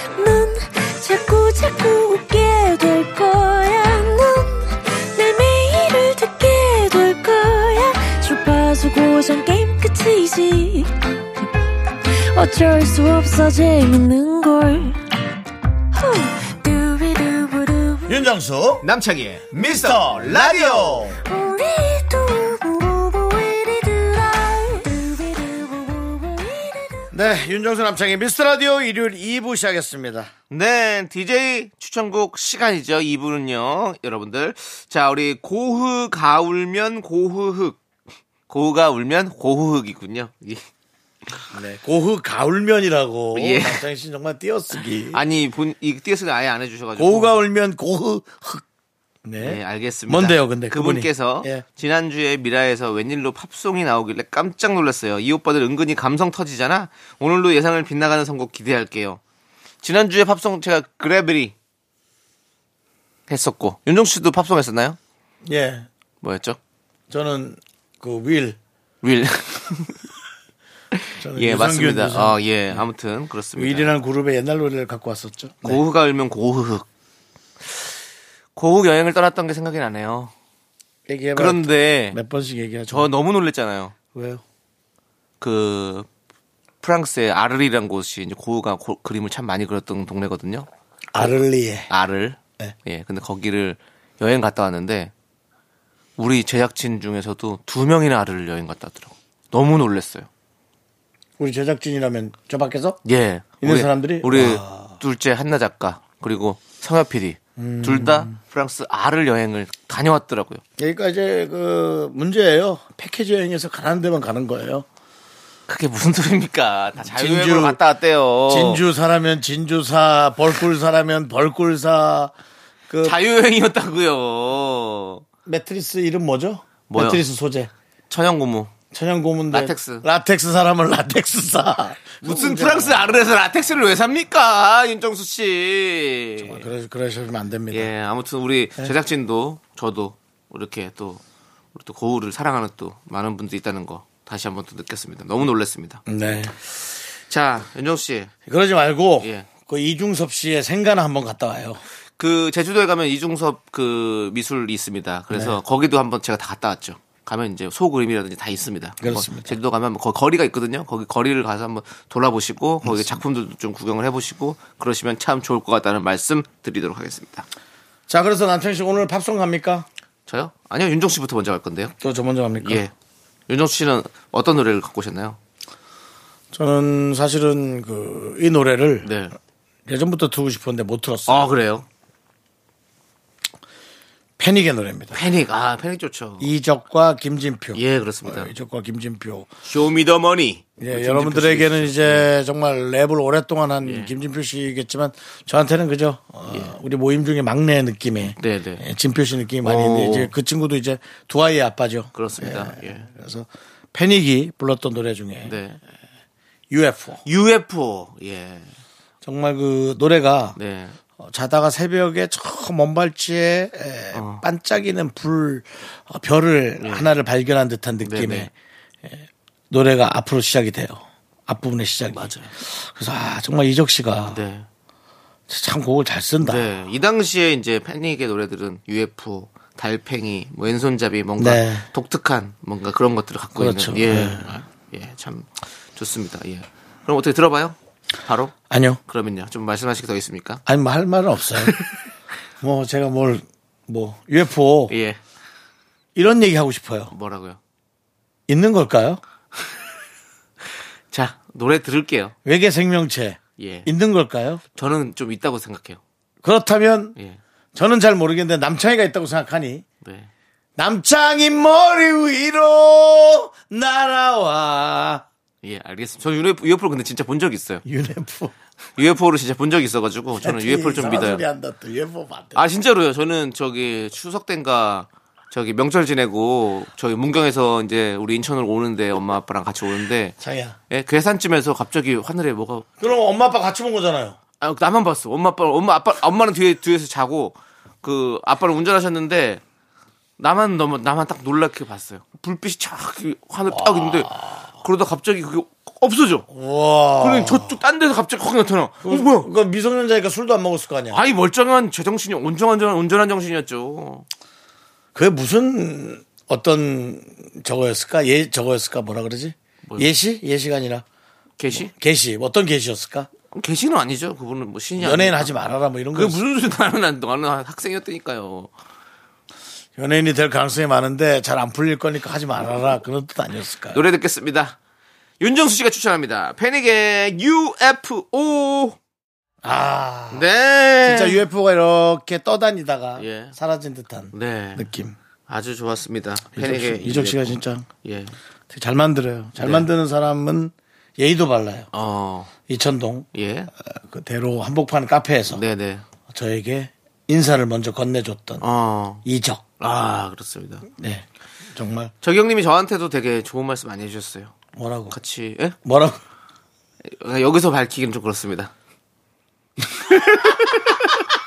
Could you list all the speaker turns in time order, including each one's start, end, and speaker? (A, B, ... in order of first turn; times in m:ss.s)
0:00.2-0:10.9 A
0:12.1-0:15.0 A
0:15.9-0:18.1 A
0:18.1-0:18.8 B
0:18.8-0:21.1 C
0:19.6-0:21.2 B
0:21.2-0:27.1 A
0:27.1-0:30.3 B
0:30.5-0:37.8 C
0:38.5-0:40.6 C
0:41.5-0:45.2 B
0:43.3-0:43.8 C
0:45.1-0:47.3 C
0:47.0-0:48.6 B
0:49.2-0:51.6 B
0:49.4-0:59.2 C
0:59.8-1:01.5 C
1:03.3-1:05.0 C
1:05.4-1:05.9 B
1:06.2-1:06.6 C
1:07.1-1:08.6 B
1:09.0-1:10.0 C
1:11.0-1:13.9 C
1:11.2-1:12.8 B
1:13.5-1:15.8 B
1:15.6-1:16.9 C
1:18.6-1:20.3 C
1:21.1-1:23.1 B
1:21.4-1:22.2 C
1:22.9-1:23.9 C
1:24.1-1:24.4 B
1:25.4-1:26.1 C
1:26.8-1:31.4 C
1:31.1-1:31.9 B
1:31.9-1:35.1 C
1:36.2-1:40.3 C
1:41.4-1:43.0 B
1:43.0-1:50.6 C
1:43.6-1:44.9 B
1:47.6-1:48.4 B
1:50.8-1:54.8 B
1:55.7-1:58.8 C
1:57.0-1:57.8 B
1:58.5-2:02.3 B
2:02.9-2:03.2 B
2:03.0-2:05.2 C
2:05.4-2:07.7 B
2:06.9-2:07.2 C
2:08.1-2:08.7 C
2:08.9-2:13.1 B
2:09.5-2:10.0 C
2:12.2-2:16.6 C
2:16.4-2:17.9 B
2:17.7-2:21.2 C
2:21.7-2:26.0 C
2:26.1-2:26.5 B
2:27.3-2:28.3 C
2:28.4-2:31.8 B
2:29.2-2:29.5 C
2:32.2-2:47.4 C
2:35.3-2:35.6 B
2:39.0-2:39.6 B
2:42.8-2:43.2 B
2:48.1-2:49.8 B
2:50.3-2:51.9 C
2:52.0-2:52.8 B
2:52.6-2:52.9 C
2:53.5-2:55.4 C
2:56.5-2:59.1 B
2:59.0-2:59.3 C
2:59.9-3:01.5 B
3:01.3-3:01.8 C
3:04.4-3:05.2 B
3:05.1-3:06.5 C
3:06.4-3:09.5 B
3:07.7-3:08.5 C
3:09.6-3:12.3 C
3:10.8-3:25.6 B
3:13.8-3:14.1 C
3:18.3-3:18.8 C
3:19.6-3:20.3 C
3:22.1-3:23.1 C
3:25.4-3:25.8 C
3:26.7-3:27.2 B
3:27.2-3:28.7 C
3:29.2-3:30.6 B
3:30.6-3:31.0 C
3:31.2-3:38.5 B
3:34.1-3:34.4 C
3:36.8-3:37.1 C
3:38.0-3:38.5 C
3:39.0-3:44.4 B
3:42.1-3:42.5 C
3:44.3-3:44.6 C
3:45.5-3:46.7 B
3:46.4-3:58.5 C
3:51.4-3:51.8 B
3:53.6-3:54.5 B
3:58.7-3:59.0 B
3:59.1-4:00.6 C
4:00.6-4:01.7 B
4:02.6-4:04.9 B
4:04.9-4:05.2 C
4:06.1-4:07.1 B
4:07.1-4:07.6 C
4:08.5-4:09.2 B
4:11.1-4:12.3 C
4:12.4-4:14.6 B
4:13.6-4:13.9 C
4:14.8-4:16.0 C
4:16.4-4:17.2 B
4:17.7-4:19.8 B
4:20.0-4:20.3 C
4:20.8-4:25.2 B
4:25.6-4:27.8 C
4:27.8-4:28.5 B
4:29.0-4:31.4 C
4:30.4-4:32.6 B
4:32.5-4:40.4 C
4:40.4-4:40.8 B
4:40.9-4:42.9 C
4:43.0-4:44.4 B
4:44.6-4:49.6 C
4:50.4-4:54.3 C
4:53.7-4:54.6 B
4:54.8-4:56.4 C
4:56.5-4:57.8 B
4:57.2-4:59.5 C
4:59.0-5:01.2 B
5:01.1-5:04.2 C
5:05.1-5:11.0 B
5:09.8-5:10.1 C
5:11.6-5:11.9 C
5:11.7-5:13.3 B
5:13.5-5:15.5 C
5:15.0-5:16.4 B
5:16.1-5:18.7 C
5:20.0-5:24.0 B
5:23.9-5:24.8 C
5:25.4-5:29.0 C
5:29.6-5:30.4 B
5:30.3-5:31.4 C
5:31.0-5:35.2 B
5:33.2-5:33.6 C
5:34.3-5:34.9 C
5:35.5-5:38.4 C
5:36.5-5:37.8 B
5:38.7-5:41.9 B
5:39.6-5:39.9 C
5:41.9-5:42.5 C
5:42.7-5:45.6 B
5:43.3-5:43.7 C
5:45.5-5:46.0 C
5:46.3-5:48.6 B
5:48.6-5:49.2 C
5:49.2-5:49.6 B
5:49.8-5:50.9 C
5:51.0-5:52.1 B
5:52.2-5:54.5 C
5:54.8-5:55.2 B
5:55.1-5:55.8 C
5:55.8-5:56.2 B
5:57.0-5:58.7 C
6:00.2-6:00.6 C